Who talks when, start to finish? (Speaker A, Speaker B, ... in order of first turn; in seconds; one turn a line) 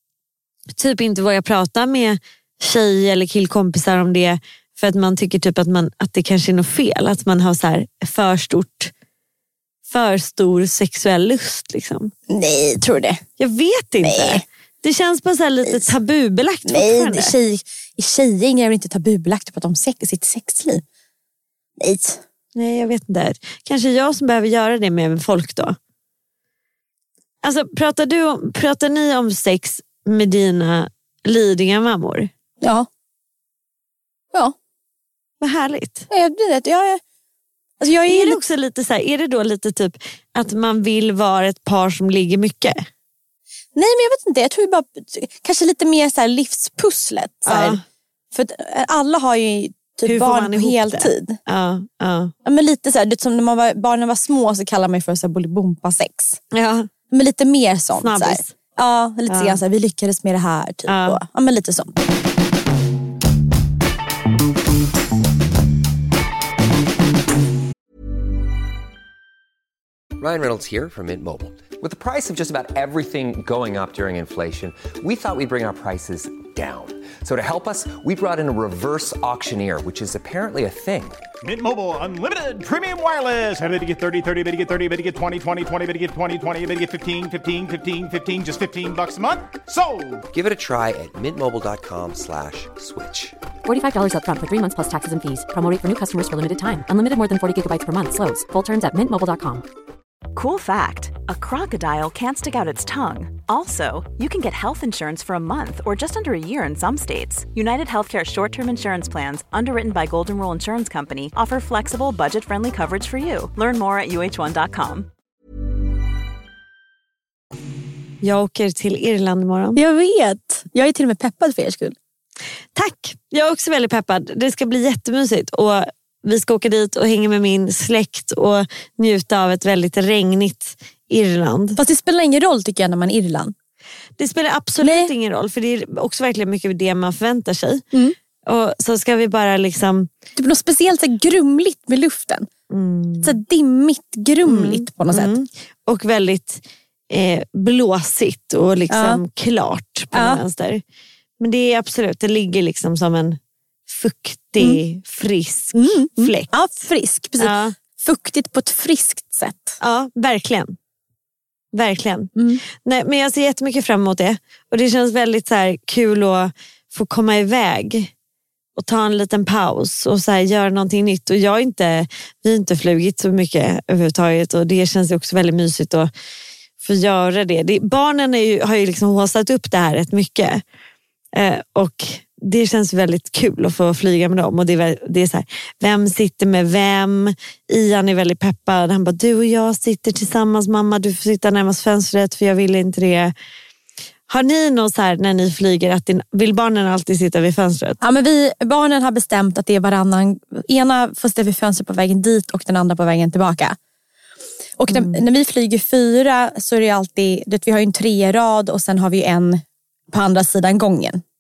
Speaker A: 0.8-8.9
Speaker A: 9.9-12.1
Speaker B: 12.3-13.2
Speaker A: 13.4-17.3
Speaker B: 14.0-14.4
Speaker B: 16.7-20.8
Speaker B: 21.8-22.2
Speaker A: 22.6-25.8
Speaker A: 27.4-32.3
Speaker B: 32.6-32.9
Speaker A: 35.4-36.1
Speaker B: 36.1-37.0
Speaker B: 37.8-38.4
Speaker A: 38.1-42.8
Speaker B: 43.8-47.8
Speaker A: 47.5-47.8
Speaker B: 48.3-51.4
Speaker A: 50.0-52.3
Speaker B: 52.5-56.4
Speaker A: 56.5-56.9
Speaker B: 57.1-62.0
Speaker A: 57.9-58.5
Speaker A: 59.3-59.6
Speaker A: 60.9-61.2
Speaker C: 70.2-81.2
Speaker D: 81.4-90.2
Speaker C: 90.3-93.3
Speaker E: 93.7-99.6
Speaker F: 100.3-115.1
Speaker A: 118.2-119.8
Speaker B: 119.8-122.0
Speaker A: 122.8-131.8
Speaker B: 131.8-133.5
Speaker A: 134.2-137.8
Speaker B: 134.8-135.1
Speaker A: 138.5-140.1
Speaker B: 140.3-142.5
Speaker A: 142.7-143.4
Speaker B: 143.2-145.3
Speaker A: 144.4-150.8
Speaker B: 148.9-149.2
Speaker B: 150.1-150.4
Speaker A: 151.4-156.5
Speaker B: 155.7-159.8
Speaker A: 157.4-157.8
Speaker A: 159.8-160.8
Speaker A: 161.7-168.1
Speaker B: 162.4-162.6
Speaker A: 168.8-176.1
Speaker A: 176.8-180.6
Speaker A: 181.3-193.3
Speaker A: 194.3-198.0
Speaker B: 198.0-203.8
Speaker B: 204.8-211.2
Speaker A: 204.9-205.2